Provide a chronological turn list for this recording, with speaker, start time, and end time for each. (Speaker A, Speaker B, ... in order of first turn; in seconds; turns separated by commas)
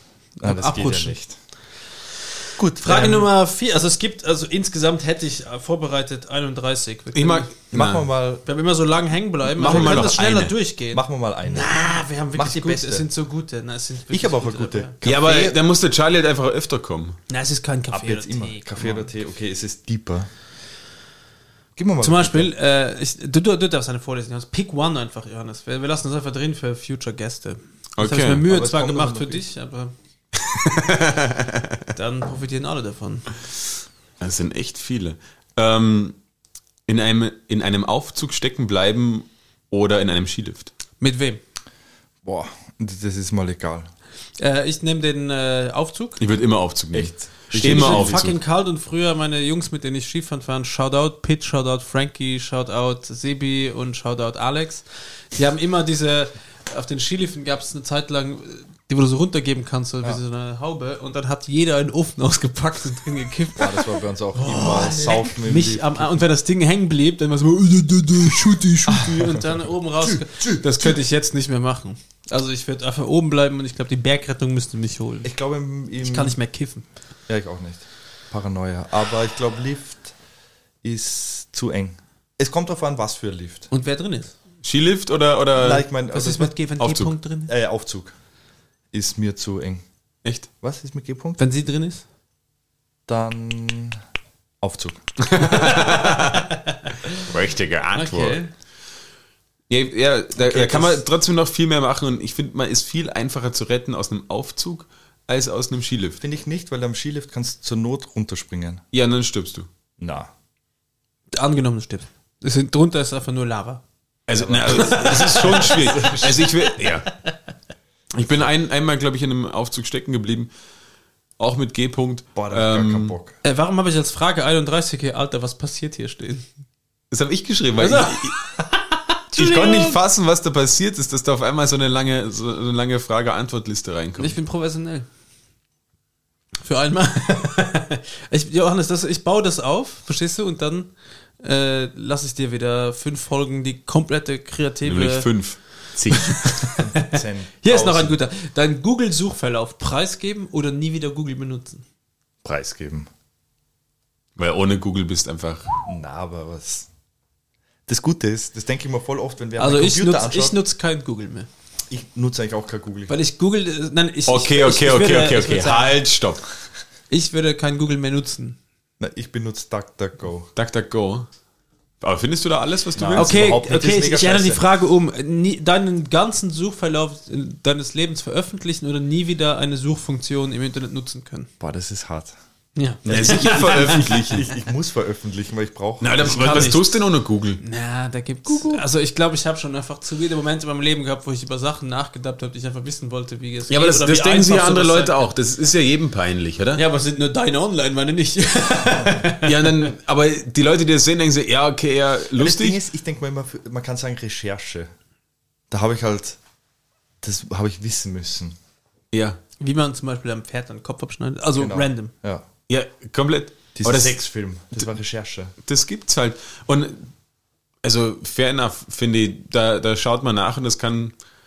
Speaker A: 0.4-1.2, Speaker B: 0.4-1.4, Speaker B: 2.6-3.2, Speaker A: 2.8-7.5, Speaker C: 7.1-8.1, Speaker B: 7.7-8.4, Speaker A: 8.5-14.9, Speaker C: 9.5-10.5, Speaker B: 9.7-10.2, Speaker B: 10.9-13.1, Speaker B: 14.1-15.6, Speaker C: 15.0-17.2, Speaker A: 17.3-19.1, Speaker B: 17.9-20.3, Speaker B: 21.8-22.5, Speaker A: 22.0-29.9, Speaker C: 28.0-28.4, Speaker B: 28.5-29.4, Speaker C: 30.6-31.8, Speaker A: 31.9-33.3, Speaker C: 34.2-36.2, Speaker C: 36.9-40.7, Speaker A: 41.0-41.4, Speaker B: 42.2-43.9, Speaker A: 44.4-46.2, Speaker C: 46.2-48.4, Speaker B: 46.9-48.3, Speaker A: 47.5-75.3, Speaker B: 63.6-66.3, Speaker B: 68.9-71.0, Speaker B: 75.2-76.4, Speaker A: 76.0-76.9, Speaker B: 77.3-80.2, Speaker B: 80.8-83.7, Speaker A: 83.7-84.3, Speaker C: 84.6-85.8, Speaker B: 85.6-86.6, Speaker A: 86.1-87.5, Speaker C: 86.8-87.1, Speaker B: 87.5-88.1, Speaker B: 88.9-89.8, Speaker B: 90.6-91.4, Speaker A: 91.4-92.0, Speaker B: 93.1-94.0, Speaker B: 94.6-95.1, Speaker C: 95.3-96.4, Speaker A: 95.4-97.3, Speaker C: 97.2-98.4, Speaker A: 97.9-98.5, Speaker C: 99.7-106.2, Speaker B: 100.4-101.0, Speaker B: 106.2-108.8, Speaker C: 108.9-109.7, Speaker B: 110.0-110.3, Speaker A: 111.3-113.8, Speaker C: 114.3-117.1, Speaker B: 114.4-116.4, Speaker A: 114.6-116.7, Speaker C: 118.1-120.5, Speaker C: 121.4-123.2, Speaker B: 122.3-123.4, Speaker A: 123.4-126.5, Speaker C: 127.1-128.4, Speaker A: 127.8-130.0, Speaker C: 129.3-134.4, Speaker A: 134.2-135.1, Speaker A: 136.6-145.3, Speaker C: 144.9-146.6, Speaker A: 146.1-151.8, Speaker B: 146.8-148.2, Speaker B: 152.4-153.1, Speaker C: 154.4-155.7, Speaker B: 155.8-156.9, Speaker B: 157.9-160.6, Speaker A: 159.6-161.5, Speaker B: 161.9-163.1, Speaker A: 163.1-166.0, Speaker C: 164.3-166.5, Speaker A: 167.1-168.6, Speaker B: 169.0-170.5, Speaker C: 170.6-171.3, Speaker C: 172.0-173.6, Speaker B: 172.9-174.7, Speaker A: 173.2-181.5, Speaker B: 181.6-182.3, Speaker A: 182.8-184.4, Speaker C: 183.1-184.5, Speaker B: 183.1-186.7, Speaker C: 186.0-187.6, Speaker A: 186.2-187.0, Speaker A: 187.6-195.2, Speaker C: 193.7-196.8, Speaker A: 196.8-199.7, Speaker C: 199.4-202.8, Speaker B: 202.4-204.9, Speaker B: 205.7-206.4, Speaker B: 207.2-208.6, Speaker C: 209.1-209.4, Speaker A: 209.6-212.1, Speaker B: 211.6-212.5, Speaker C: 212.7-214.2, Speaker B: 213.8-215.5, Speaker C: 215.7-217.1, Speaker C: 217.8-221.1